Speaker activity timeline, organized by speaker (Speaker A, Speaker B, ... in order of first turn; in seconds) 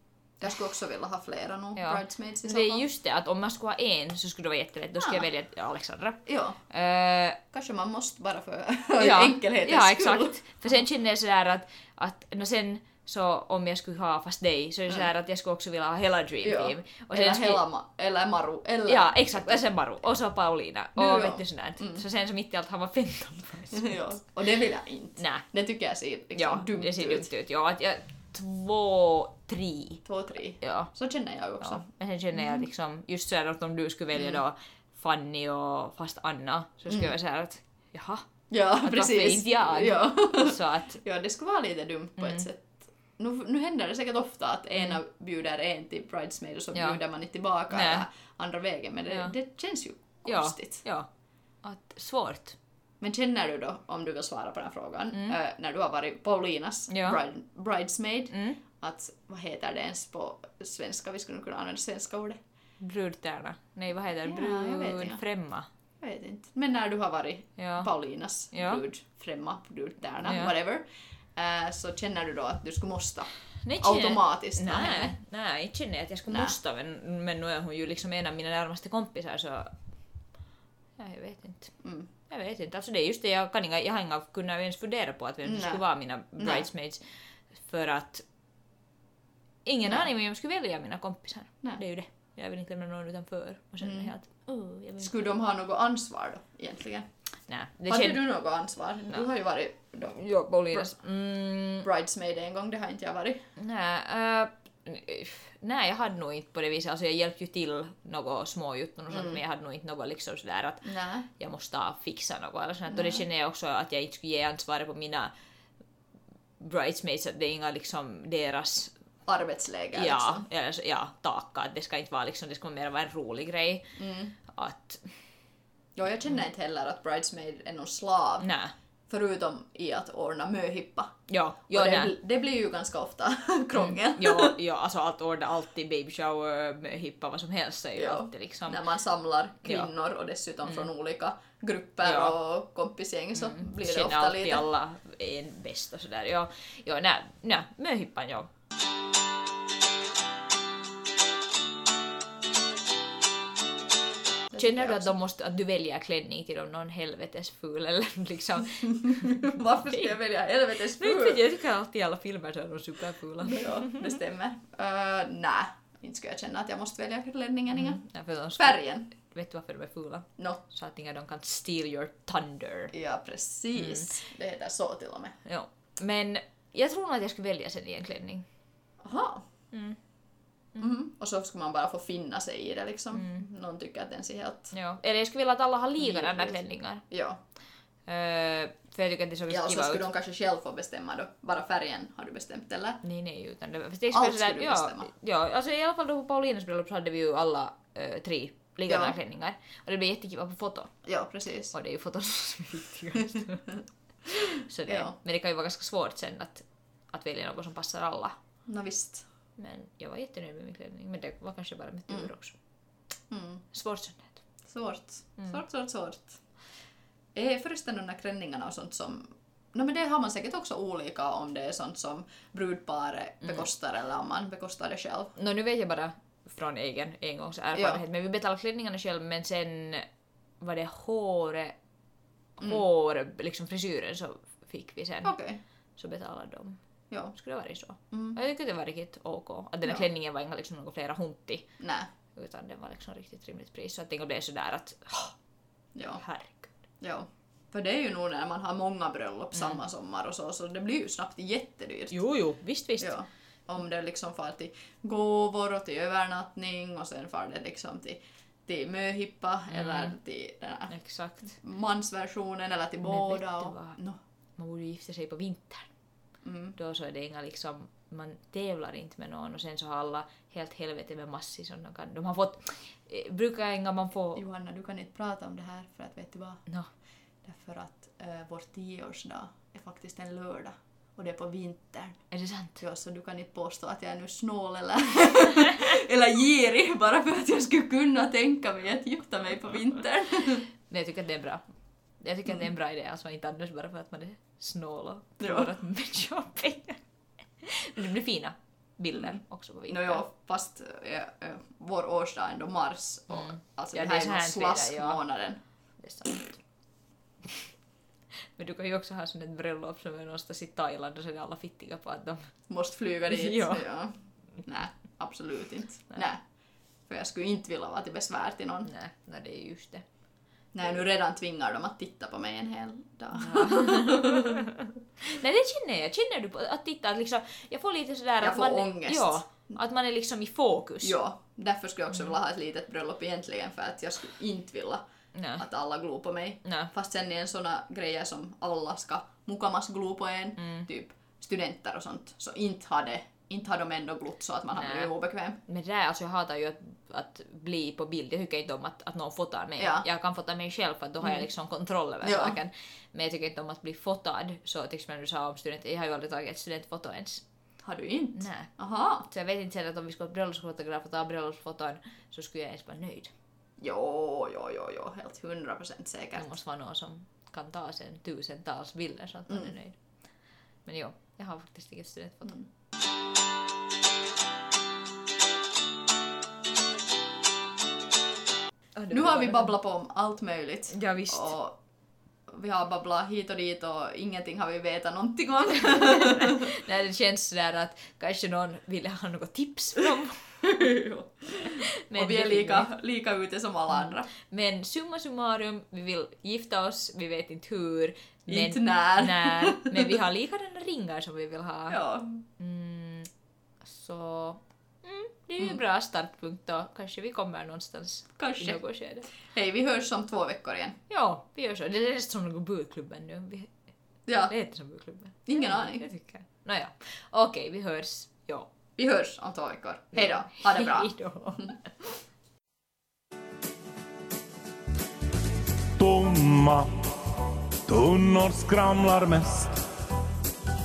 Speaker A: 0.4-2.8, 5.0-5.3, 6.2-6.6, 7.5-10.4, 16.4-19.6, 20.9-22.0, 23.7-27.3, 30.1-31.9, 32.4-32.6, 34.1-34.4, 36.9-37.1, 38.5-50.8, 53.0-62.4, 64.2-65.2, 66.0-75.2, 76.3-76.5, 81.8-82.1, 85.4-85.8, 86.4-86.7, 93.8-94.1, 95.0-97.1, 97.9-100.2, 101.8-103.5, 109.1-109.4, 110.8-111.3, 112.9-113.2, 119.2-120.5, 124.0-124.3, 126.0-128.5, 129.1-131.1, 131.7-134.6, 137.9-144.7, 154.5-155.1, 158.9-161.4, 163.4-168.0, 168.5-169.1, 172.9-175.4, 179.0-179.5, 180.8-184.7, 186.0-187.4, 189.5-193.0, 194.1-195.1, 198.9-199.2, 201.0-201.7, 204.8-205.1, 208.7-209.2, 213.3-213.6, 214.7-216.4, 217.3-225.3, 227.7-228.0, 235.2-235.6, 238.1-238.4, 241.8-242.1, 245.9-246.2, 247.0-252.2, 253.0-260.9, 261.6-264.2, 266.4-266.8, 274.4-276.6, 277.4-282.2, 282.8-290.7, 295.4-295.7, 299.9-305.6, 312.7-316.4, 317.1-318.9, 320.7-324.6, 328.4-329.4, 331.0-335.0, 335.6-345.6, 349.8-350.1, 352.2-352.6, 357.8-359.2, 363.8-366.5, 369.5-369.7, 379.1-381.8, 382.5-386.7, 390.6-394.3, 398.5-400.2, 401.9-402.4, 408.4-408.8, 409.4-411.0, 414.3-414.5, 415.4-416.1, 419.0-421.7
Speaker B: 1.8-7.4, 9.0-17.6, 18.9-24.0, 25.2-25.4, 26.4-30.0, 30.6-30.9, 31.6-38.2, 38.8-41.0, 42.2-42.4, 46.7-47.0, 47.7-48.0, 50.2-51.1, 51.6-52.6, 56.9-57.2, 58.3-58.6, 62.8-65.7, 67.6-67.9, 68.5-68.8, 70.2-70.5, 73.6-79.7, 81.0-87.0, 87.6-88.2, 89.6-95.2, 97.5-98.2, 100.1-101.9, 103.6-110.8, 111.4-115.3, 116.6-118.9, 119.9-123.9, 124.5-125.1, 128.4-128.7, 131.3-132.1, 133.8-138.8, 139.6-139.9, 142.0-142.3, 143.4-148.5, 154.6-160.1, 160.9-164.1, 167.7-172.9, 173.8-174.1, 175.4-178.4, 179.7-180.0, 183.1-183.4, 184.7-187.0, 188.1-190.1, 193.0-200.9, 201.7-203.7, 204.4-208.3, 209.6-212.6, 213.7-214.4, 223.4-223.7, 225.3-230.1, 230.6-231.8, 232.6-235.3, 236.0-236.8, 237.3-241.7, 242.3-245.3, 246.1-246.8, 249.5-249.8, 252.1-253.2, 259.7-260.1, 260.9-261.6, 263.0-264.0, 264.6-265.9, 266.8-274.4, 282.3-282.8, 290.9-291.6, 292.2-297.0, 297.6-300.2, 303.3-305.2, 306.0-306.6, 308.6-312.5, 313.3-313.9, 318.9-320.0, 323.3-331.2, 335.3-335.6, 336.6-336.9, 340.6-340.9, 344.7-345.1, 345.6-357.4, 358.3-358.7, 359.2-363.3, 366.3-370.0, 370.8-372.6, 378.9-379.7, 380.9-381.5, 385.8-390.9, 391.5-392.9, 394.0-402.0, 402.6-403.3, 403.8-409.3, 411.1-413.7, 414.5-418.7, 420.2-421.8
Speaker C: 426.0-426.9, 427.9-429.8